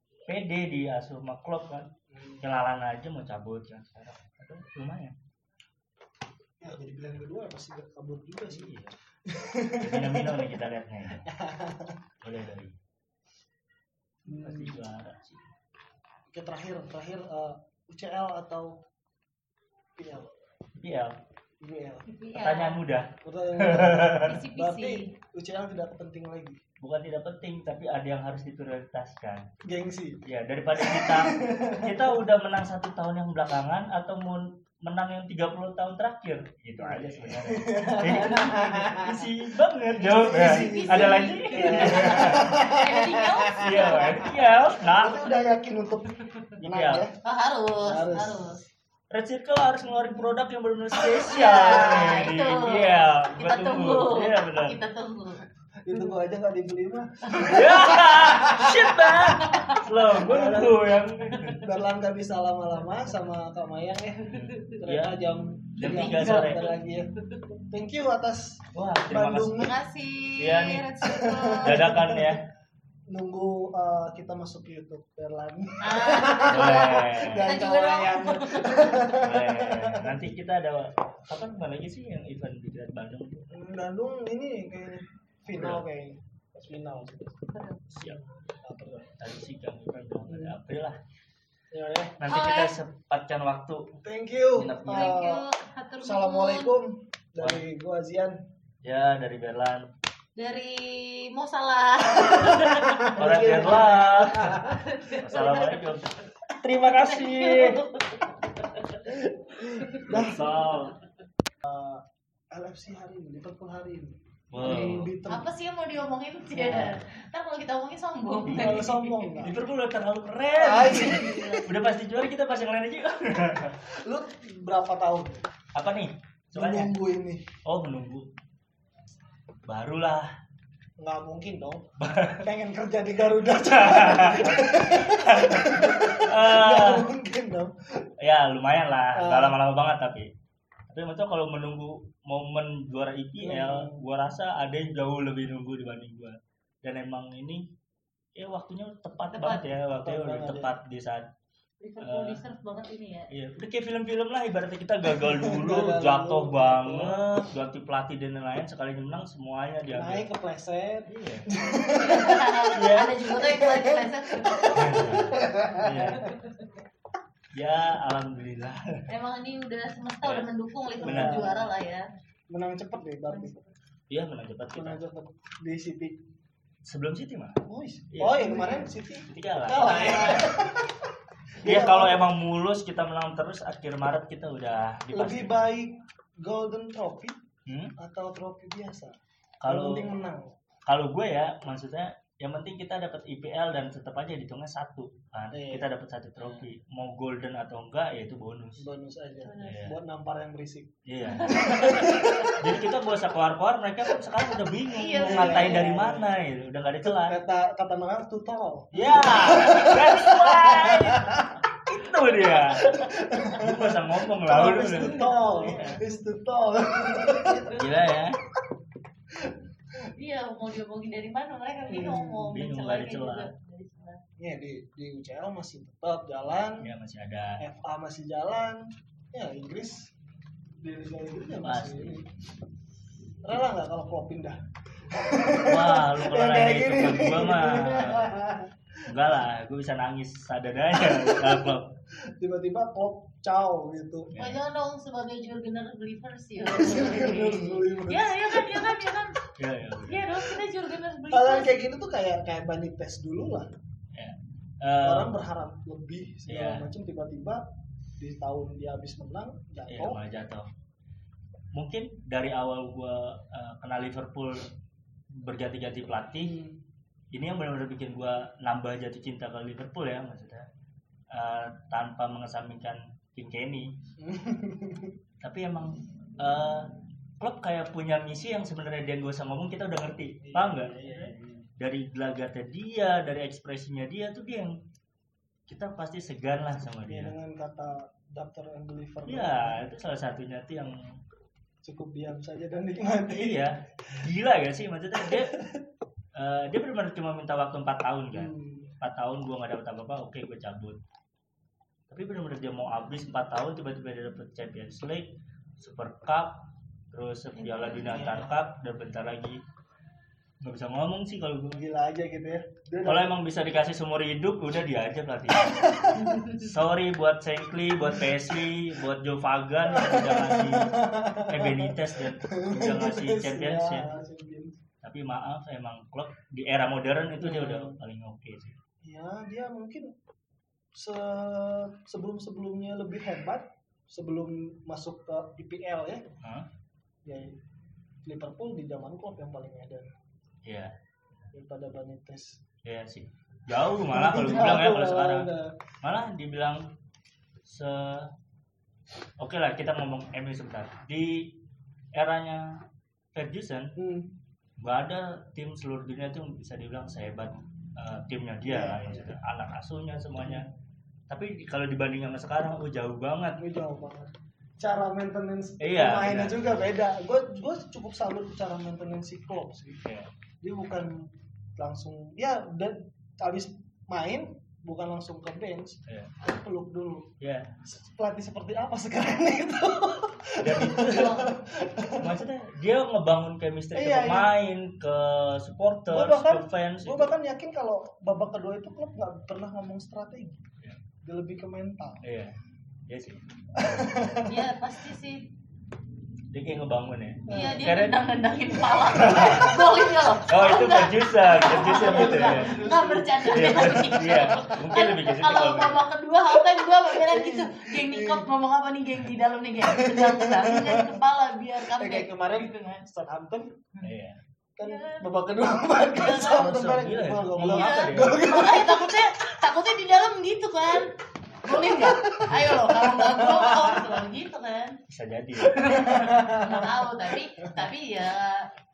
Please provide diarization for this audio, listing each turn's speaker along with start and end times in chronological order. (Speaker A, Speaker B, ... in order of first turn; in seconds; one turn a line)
Speaker A: 0.3-1.9
Speaker B: 2.1-2.4
Speaker A: 2.4-5.1
Speaker B: 6.6-10.6
Speaker A: 8.5-8.9
Speaker A: 9.8-11.2
Speaker B: 11.2-12.0
Speaker A: 12.2-12.7
Speaker B: 14.3-14.9
Speaker A: 14.3-15.4
Speaker B: 16.3-18.7
Speaker B: 20.0-20.2
Speaker A: 20.8-21.1
Speaker B: 21.6-22.0
Speaker C: 22.1-22.8
Speaker A: 22.3-24.4
Speaker B: 23.2-26.6
Speaker C: 24.2-25.1
Speaker A: 26.8-29.4
Speaker B: 29.6-30.2
Speaker A: 30.2-42.5
Speaker B: 30.7-32.1
Speaker B: 36.8-39.2
Speaker B: 40.0-44.1
Speaker C: 40.1-44.4
Speaker A: 43.6-45.4
Speaker B: 44.9-47.1
Speaker A: 46.6-47.1
Speaker C: 47.2-48.5
Speaker B: 47.9-48.5
Speaker A: 49.1-54.7
Speaker B: 50.9-51.2
Speaker C: 51.2-55.4
Speaker B: 55.8-59.1
Speaker A: 57.4-61.7
Speaker C: 59.3-59.8
Speaker B: 60.2-60.8
Speaker B: 61.6-67.1
Speaker A: 64.3-65.2
Speaker A: 65.8-66.7
Speaker C: 65.8-66.7
Speaker B: 67.7-69.7
Speaker A: 68.7-69.7
Speaker C: 69.6-71.8
Speaker A: 70.4-70.8
Speaker B: 71.0-72.4
Speaker A: 71.6-72.4
Speaker B: 73.1-80.2
Speaker C: 75.8-76.8
Speaker A: 76.5-77.5
Speaker C: 77.4-79.1
Speaker A: 79.2-83.4
Speaker B: 83.5-87.3
Speaker A: 85.6-85.8
Speaker A: 87.9-88.2
Speaker B: 88.6-89.1
Speaker A: 89.2-90.9
Speaker B: 90.3-90.6
Speaker B: 91.7-92.2
Speaker A: 92.2-93.8
Speaker C: 92.3-92.8
Speaker B: 94.0-95.4
Speaker A: 94.5-95.2
Speaker C: 94.8-96.7
Speaker B: 96.0-98.3
Speaker A: 97.4-97.7
Speaker A: 98.8-99.8
Speaker C: 100.3-103.0
Speaker B: 102.2-104.7
Speaker A: 103.2-104.5
Speaker C: 104.5-106.1
Speaker A: 105.2-107.8
Speaker C: 106.8-109.0
Speaker B: 109.0-110.4
Speaker A: 110.1-111.0
Speaker B: 111.6-112.0
Speaker B: 112.5-115.5
Speaker A: 114.5-115.1
Speaker C: 114.8-119.3
Speaker B: 116.5-117.0
Speaker A: 118.5-123.8
Speaker B: 118.5-119.5
Speaker B: 120.5-121.6
Speaker B: 124.0-125.4
Speaker A: 125.7-126.9
Speaker B: 126.5-127.4
Speaker A: 127.7-128.2
Speaker A: 129.6-130.2
Speaker B: 131.0-131.8
Speaker A: 132.0-132.5
Speaker B: 132.4-137.7
Speaker A: 133.6-137.0
Speaker A: 138.2-140.3
Speaker B: 139.1-139.6
Speaker A: 140.9-147.6
Speaker B: 143.4-144.1
Speaker A: 148.4-151.2
Speaker C: 149.3-149.7
Speaker B: 149.9-150.7
Speaker C: 151.8-153.3
Speaker A: 152.0-152.4
Speaker A: 153.3-160.3
Speaker B: 155.3-157.2
Speaker B: 159.9-162.8
Speaker A: 161.1-161.5
Speaker C: 162.0-164.8
Speaker A: 162.7-163.2
Speaker B: 163.3-166.3
Speaker A: 164.7-166.2
Speaker C: 166.2-166.5
Speaker A: 167.5-169.0
Speaker C: 169.1-172.1
Speaker B: 171.0-171.7
Speaker A: 171.0-171.5
Speaker B: 172.5-173.6
Speaker C: 173.3-173.6
Speaker A: 174.1-175.0
Speaker B: 174.7-176.2
Speaker A: 176.8-178.7
Speaker B: 177.7-181.1
Speaker A: 179.2-180.5
Speaker B: 181.6-182.3
Speaker A: 181.6-185.7
Speaker B: 185.1-187.3
Speaker A: 187.7-187.9
Speaker B: 188.0-189.1
Speaker A: 189.6-190.2
Speaker B: 189.7-190.5
Speaker A: 190.9-198.8
Speaker B: 195.5-195.8
Speaker B: 198.8-200.9
Speaker C: 199.4-199.8
Speaker A: 199.6-199.9
Speaker A: 201.1-201.6
Speaker C: 201.3-202.5
Speaker B: 201.5-202.5
Speaker A: 202.6-207.4
Speaker C: 204.9-205.8
Speaker B: 205.2-206.4
Speaker B: 207.1-211.5
Speaker A: 208.9-211.3
Speaker A: 211.9-216.0
Speaker B: 212.9-217.7
Speaker C: 215.0-215.9
Speaker A: 217.7-218.4
Speaker C: 220.1-224.2
Speaker B: 221.9-222.6
Speaker A: 222.5-223.5
Speaker B: 224.4-226.9
Speaker A: 226.8-227.6
Speaker B: 227.6-230.1
Speaker B: 230.8-232.2
Speaker A: 231.6-232.2
Speaker B: 233.4-234.6
Speaker B: 235.1-238.7
Speaker A: 235.6-238.3
Speaker A: 239.1-241.9
Speaker B: 240.9-241.7
Speaker B: 242.4-244.3
Speaker A: 244.3-244.6
Speaker C: 244.3-249.3
Speaker B: 246.7-249.1
Speaker A: 249.6-250.3
Speaker C: 250.1-251.8
Speaker B: 251.3-253.7
Speaker A: 254.2-255.3
Speaker B: 255.0-257.6
Speaker A: 256.5-256.9
Speaker B: 258.2-260.2
Speaker A: 259.9-260.6
Speaker A: 261.7-264.7
Speaker A: 265.4-266.6
Speaker B: 266.4-266.8
Speaker A: 267.3-270.6
Speaker A: 271.3-273.9
Speaker B: 274.2-275.1
Speaker A: 275.4-276.9
Speaker A: 277.4-284.7
Speaker B: 280.4-281.6
Speaker A: 285.7-287.3
Speaker B: 287.1-289.8
Speaker A: 289.2-290.9
Speaker B: 291.8-293.7
Speaker A: 293.2-295.6
Speaker B: 295.3-295.8
Speaker A: 296.4-301.0
Speaker B: 298.3-298.9
Speaker A: 302.1-305.3
Speaker A: 305.8-309.6
Speaker C: 307.5-308.4
Speaker B: 308.1-308.6
Speaker A: 310.6-311.8
Speaker B: 311.8-313.4
Speaker A: 313.0-320.9
Speaker B: 315.5-316.4
Speaker C: 316.2-316.6
Speaker B: 319.9-324.7
Speaker A: 321.4-324.1
Speaker A: 325.0-328.7
Speaker B: 327.4-328.0
Speaker B: 329.0-330.1
Speaker B: 330.9-336.2
Speaker A: 336.4-336.7
Speaker B: 338.2-340.1
Speaker A: 340.6-340.9
Speaker B: 341.5-342.6
Speaker A: 342.8-345.5
Speaker B: 344.1-345.7
Speaker A: 346.0-346.8
Speaker A: 347.6-348.3
Speaker A: 349.4-351.4
Speaker A: 352.1-352.6
Speaker A: 353.3-353.9
Speaker B: 354.0-354.3
Speaker A: 354.8-360.7
Speaker B: 358.6-359.3
Speaker B: 360.4-360.7
Speaker A: 361.3-363.6
Speaker B: 363.6-370.0
Speaker A: 365.8-366.7
Speaker B: 370.6-371.1
Speaker B: 371.8-377.3
Speaker A: 376.1-376.3
Speaker A: 377.4-377.7
Speaker B: 377.9-382.4
Speaker A: 380.6-381.4
Speaker C: 381.1-381.5
Speaker A: 382.2-387.3
Speaker B: 383.9-384.5
Speaker B: 386.1-390.6
Speaker B: 391.2-392.2
Speaker A: 392.2-392.5
Speaker A: 393.1-393.4
Speaker B: 393.8-394.7
Speaker C: 394.4-395.4
Speaker A: 396.5-398.2
Speaker B: 397.5-398.0
Speaker C: 397.5-413.1
Speaker A: 399.0-399.8
Speaker A: 400.4-402.8
Speaker B: 401.7-404.2
Speaker A: 403.4-406.0
Speaker B: 406.5-408.5
Speaker B: 409.8-411.2
Speaker B: 411.9-413.7
Speaker A: 414.0-414.4
Speaker B: 414.8-419.2
Speaker C: 414.8-415.2
Speaker C: 416.1-416.6
Speaker A: 416.5-418.4
Speaker C: 417.5-421.1
Speaker C: 421.6-425.0
Speaker B: 421.7-424.1
Speaker A: 425.1-425.8
Speaker B: 425.6-427.0
Speaker C: 425.8-428.6